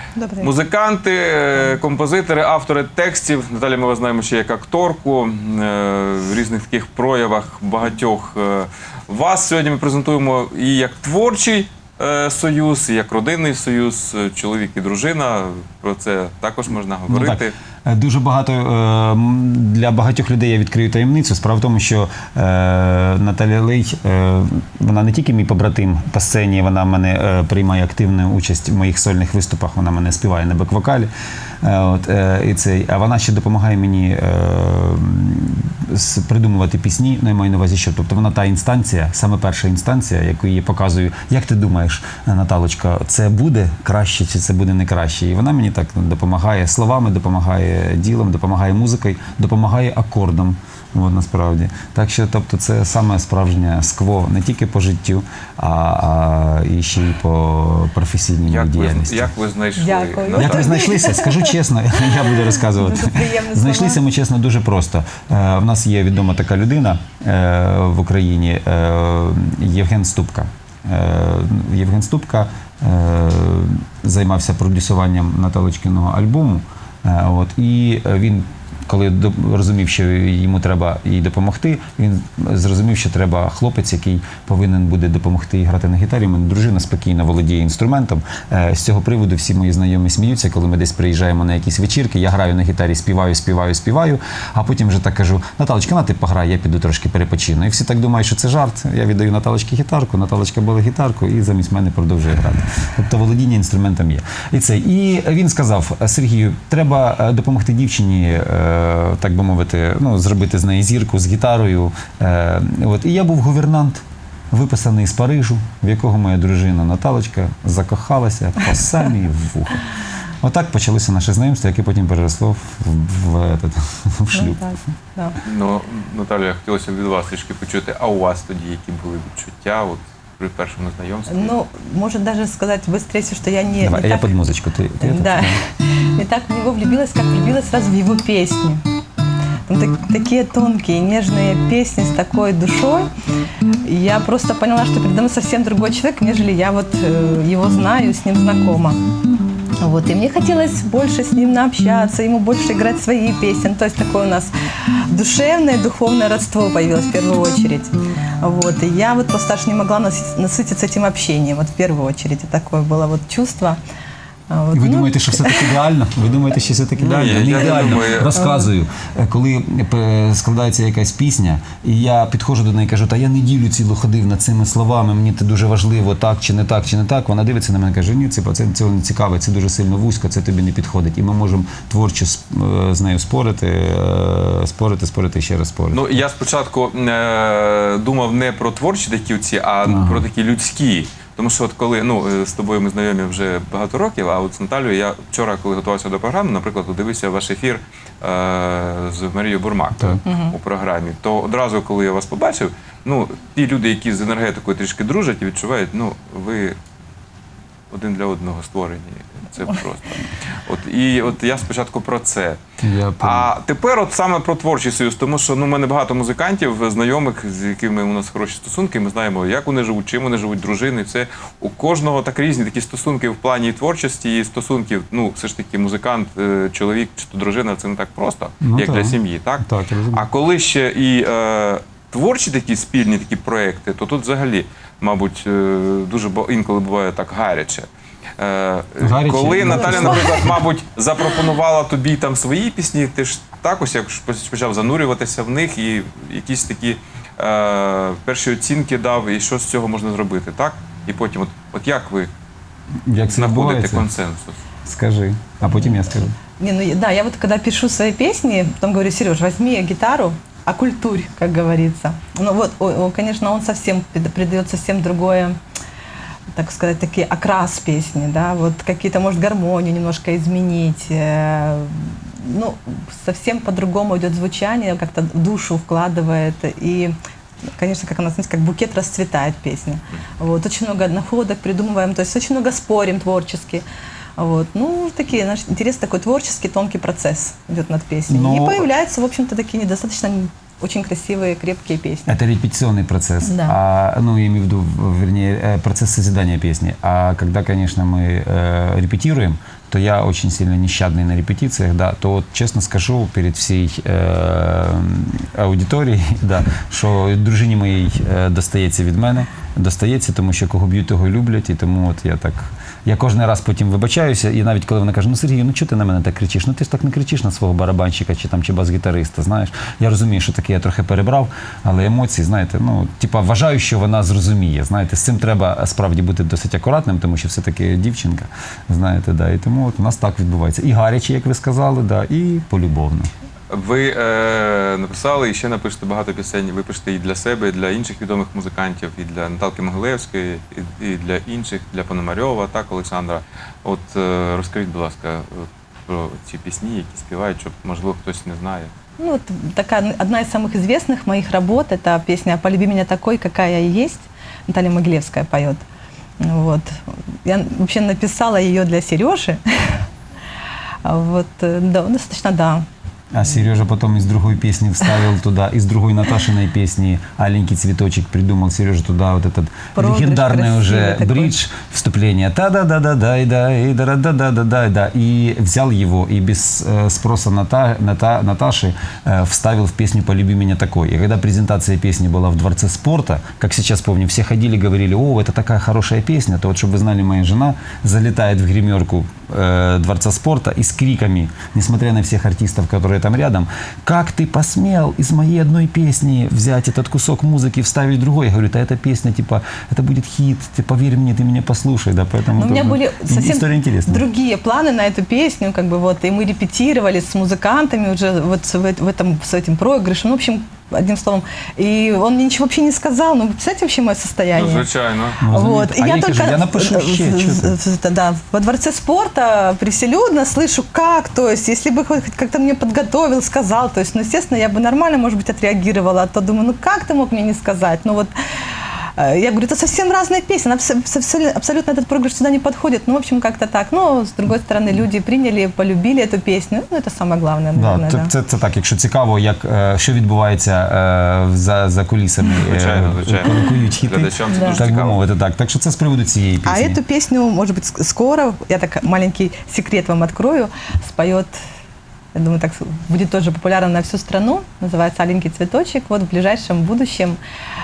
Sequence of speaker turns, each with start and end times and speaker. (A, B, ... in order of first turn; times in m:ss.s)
0:00.2-0:00.5 A
0:00.4-0:17.6 B
0:17.1-0:31.1 C
0:31.6-0:59.3 C
0:58.5-1:00.8 B
0:59.8-1:01.5 A
1:00.4-1:59.9 C
1:02.1-1:04.0 A
2:00.4-2:04.7 C
2:04.3-2:05.4 A
2:05.4-2:11.6 B
2:11.3-2:14.4 A
2:13.8-2:15.6 C
2:15.0-2:18.8 A
2:19.7-2:23.1 A
2:23.8-2:29.0 A
2:29.8-2:34.5 A
2:35.1-2:43.8 A
2:44.5-2:45.8 A
2:44.7-3:06.1 C
2:47.0-2:48.4 B
2:48.4-2:48.7 A
3:05.9-3:26.8 B
3:09.9-3:10.3 C
3:20.2-3:20.5 A
3:27.9-3:32.6 B
3:32.8-3:33.5 C
3:33.2-3:57.9 B
3:48.6-3:50.3 C
3:58.4-4:12.3 B
3:59.0-4:00.5 C
4:13.0-4:14.1 C
4:13.3-4:14.6 B
4:14.9-4:16.3 C
4:15.6-4:16.0 A
4:16.6-4:25.6 A
4:26.5-4:37.1 A
4:37.8-4:43.8 A
4:44.4-4:52.3 A
4:48.3-4:48.9 C
4:52.3-5:33.3 C
4:53.4-4:53.8 A
5:33.7-5:48.9 B
5:49.2-5:55.8 A
5:56.4-6:00.0 A
6:01.0-6:02.8 A
6:03.3-6:44.2 C
6:10.0-6:11.5 A
6:42.6-6:54.9 A
6:54.5-6:55.4 B
6:55.4-6:57.8 C
6:55.5-7:08.3 A
7:09.0-7:18.3 A
7:17.8-7:27.0 C
7:22.7-7:25.2 B
7:24.5-7:24.8 A
7:26.6-7:31.6 A
7:32.3-7:37.4 A